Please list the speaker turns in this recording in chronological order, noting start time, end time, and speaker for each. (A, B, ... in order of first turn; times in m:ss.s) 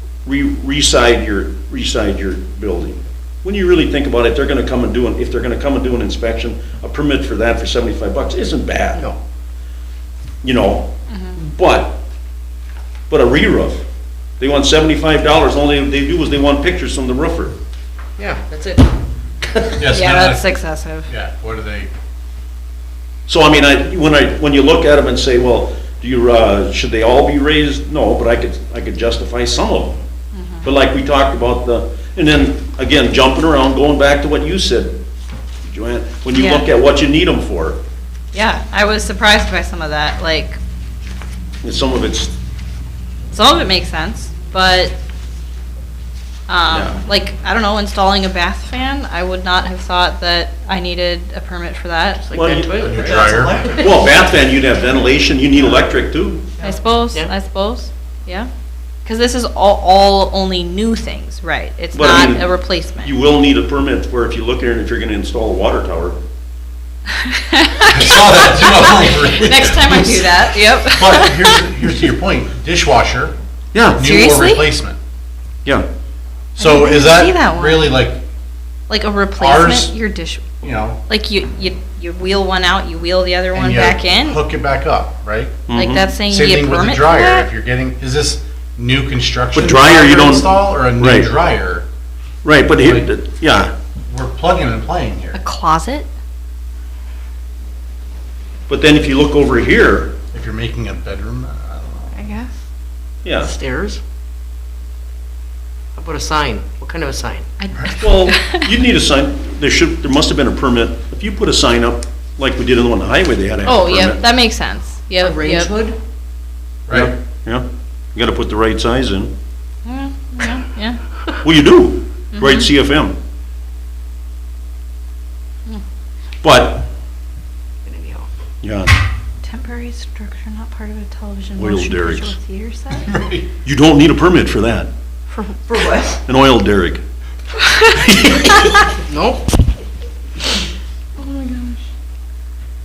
0:00.2-0:09.1 A
0:10.4-0:12.0 A
0:13.1-0:13.8 A
0:14.4-0:17.6 A
0:18.2-0:19.8 B
0:19.8-0:20.5 C
0:19.9-0:21.1 D
0:21.1-0:21.9 C
0:23.3-0:30.0 A
0:30.3-0:30.7 D
0:30.6-0:35.0 A
0:35.6-0:37.8 A
0:36.3-0:36.7 D
0:38.3-0:40.6 D
0:41.6-0:42.4 A
0:43.3-0:45.0 D
0:46.5-0:52.2 D
0:46.7-0:47.0 A
0:52.2-0:54.0 B
0:52.3-0:53.2 A
0:52.8-0:53.7 C
0:53.8-0:56.5 A
0:56.6-0:58.5 D
0:56.6-0:57.3 B
0:59.0-1:03.1 D
1:01.9-1:06.2 A
1:07.2-1:11.6 D
1:07.8-1:13.3 C
1:13.7-1:14.1 A
1:14.0-1:15.0 C
1:14.0-1:14.6 D
1:16.6-1:18.0 D
1:16.6-1:18.2 C
1:18.9-1:20.5 D
1:19.4-1:20.0 C
1:20.6-1:21.0 C
1:21.1-1:24.4 D
1:23.5-1:25.6 C
1:25.7-1:26.0 A
1:25.7-1:27.5 D
1:26.3-1:31.8 C
1:29.5-1:31.3 A
1:32.4-1:33.7 A
1:32.8-1:33.1 C
1:34.1-1:35.4 C
1:35.3-1:36.1 D
1:38.7-1:40.2 A
1:40.3-1:42.2 C
1:42.1-1:42.5 D
1:43.2-1:43.5 A
1:43.4-1:44.0 B
1:45.9-1:47.5 B
1:47.6-1:48.7 D
1:48.0-1:54.2 A
1:53.6-1:55.7 D
1:55.2-1:56.0 B
1:56.9-1:59.3 A
1:59.8-2:01.0 D
2:01.4-2:03.2 A
2:02.3-2:02.7 D
2:06.4-2:06.9 A
2:07.8-2:08.3 B
2:08.6-2:08.9 A
2:09.4-2:13.1 D
2:11.6-2:12.4 A
2:12.9-2:13.5 C
2:13.6-2:14.9 A
2:15.3-2:16.2 B
2:16.2-2:17.0 A
2:17.6-2:18.8 D
2:18.0-2:18.7 A
2:18.8-2:19.6 B
2:21.2-2:21.8 D